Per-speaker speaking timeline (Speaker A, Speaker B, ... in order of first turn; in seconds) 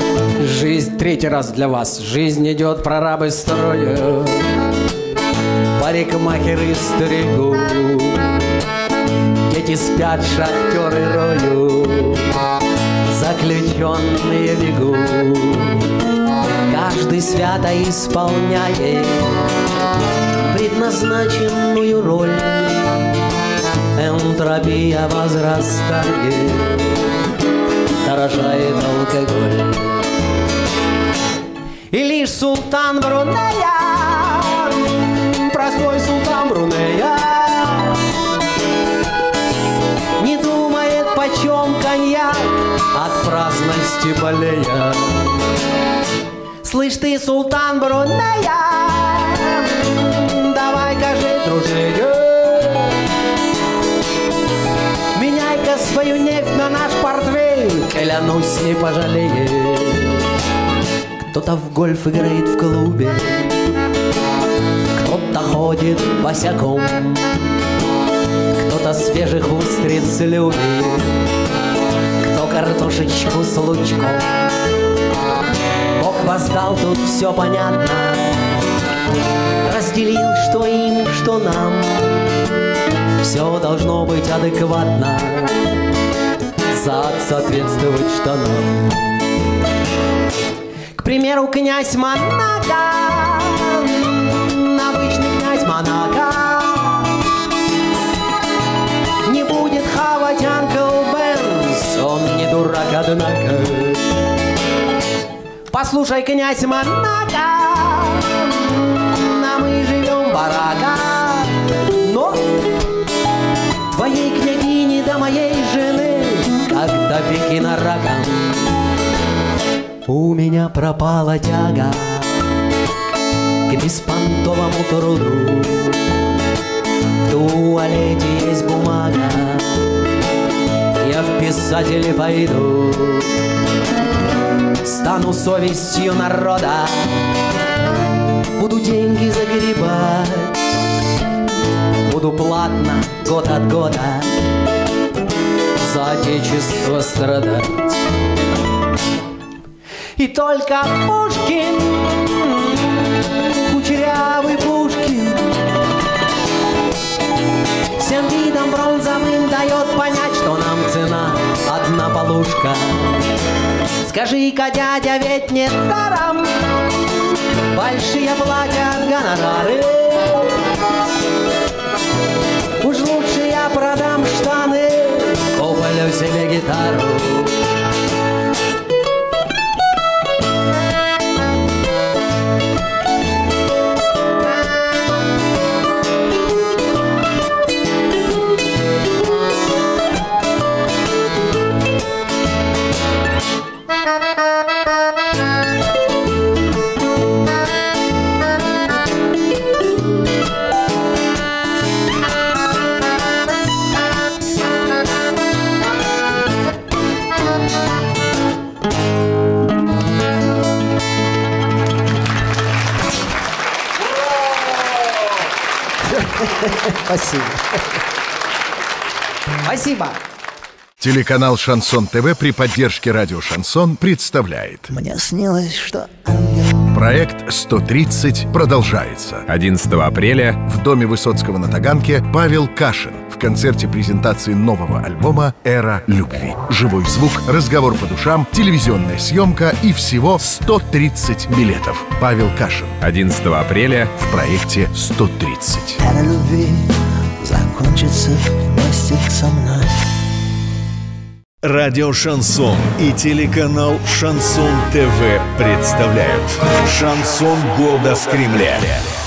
Speaker A: 0.4-4.6, 5.8-8.5, 9.4-12.4, 13.0-15.9, 16.7-19.5, 20.4-23.2, 23.9-27.1, 28.0-30.1, 31.9-38.2, 40.2-45.5, 46.6-53.1, 55.1-60.3, 61.2-63.6, 64.9-67.5, 68.5-71.2, 72.2-74.5, 76.0-78.5, 79.6-82.5, 83.2-85.7, 86.7-89.1, 91.0-97.3, 99.2-104.3, 105.7-112.7, 113.9-118.8, 120.1-122.4, 123.7-126.2, 127.2-129.9, 131.0-133.4, 134.8-137.3, 138.6-140.8, 142.0-144.5, 145.8-148.0, 150.2-155.6, 158.0-163.3, 164.0-170.6, 172.8-177.7, 216.1-217.8, 219.6-220.2
Speaker B: 221.0-224.9, 226.9-229.5, 230.6-243.0, 244.2-246.0
Speaker C: 224.9-226.9, 246.0-250.1
Speaker D: 229.5-230.6, 243.0-244.2
Speaker E: 251.6-259.1